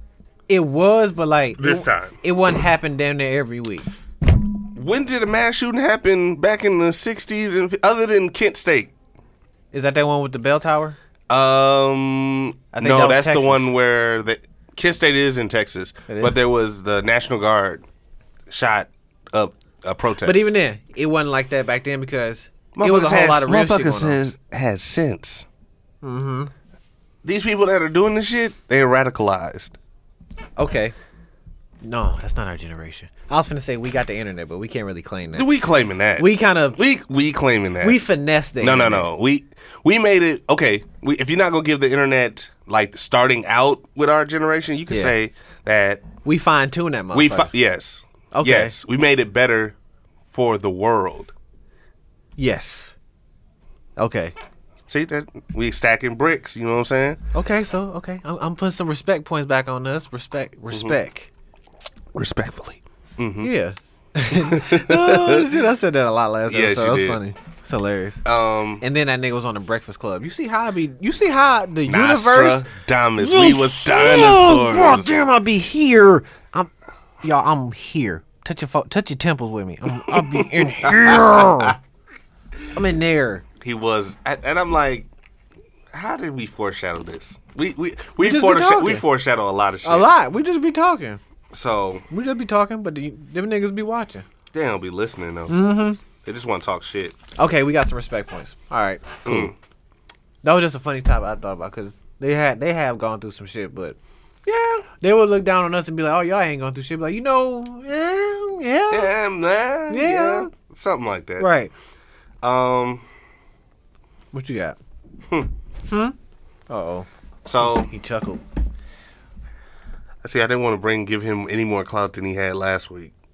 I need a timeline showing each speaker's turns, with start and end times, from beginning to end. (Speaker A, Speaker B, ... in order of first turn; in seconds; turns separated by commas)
Speaker A: 0.5-3.9, Speaker B: 1.6-2.2, Speaker B: 4.7-8.9, Speaker A: 9.7-11.0, Speaker B: 11.3-17.9, Speaker A: 12.7-13.7, Speaker A: 16.1-16.4, Speaker B: 18.5-20.5, Speaker A: 20.2-24.2, Speaker B: 22.7-25.5, Speaker A: 26.0-26.5, Speaker B: 27.2-29.8, Speaker A: 30.6-30.9, Speaker A: 31.8-35.5, Speaker B: 35.3-38.0, Speaker A: 36.2-36.8, Speaker A: 37.8-39.1, Speaker B: 38.6-46.1, Speaker A: 46.2-47.5, Speaker B: 47.1-49.7, Speaker A: 48.3-48.7, Speaker B: 50.3-51.3, Speaker A: 52.4-52.9, Speaker A: 54.0-54.3, Speaker B: 54.9-57.2, Speaker A: 57.3-61.3, Speaker B: 60.7-61.0, Speaker B: 62.1-63.5, Speaker A: 63.4-68.2, Speaker B: 64.3-65.6, Speaker B: 66.5-67.2, Speaker B: 68.2-68.8, Speaker A: 68.8-76.7, Speaker B: 71.9-75.3, Speaker A: 77.2-81.8, Speaker B: 80.1-81.8, Speaker A: 82.7-83.4, Speaker B: 83.6-85.1, Speaker B: 85.9-90.1, Speaker A: 88.2-89.0, Speaker A: 89.8-91.2, Speaker B: 91.5-92.0, Speaker A: 92.1-94.2, Speaker B: 94.5-97.2, Speaker A: 95.5-96.0, Speaker A: 97.4-99.5, Speaker B: 99.2-99.5, Speaker A: 100.4-104.0, Speaker B: 104.4-104.8, Speaker A: 105.0-109.1, Speaker B: 108.9-111.5, Speaker A: 109.9-110.5, Speaker A: 111.4-111.7, Speaker B: 112.4-113.0, Speaker A: 114.3-114.8, Speaker A: 115.9-116.1, Speaker A: 116.7-117.1, Speaker B: 117.4-117.9, Speaker A: 117.6-118.4, Speaker B: 120.2-123.1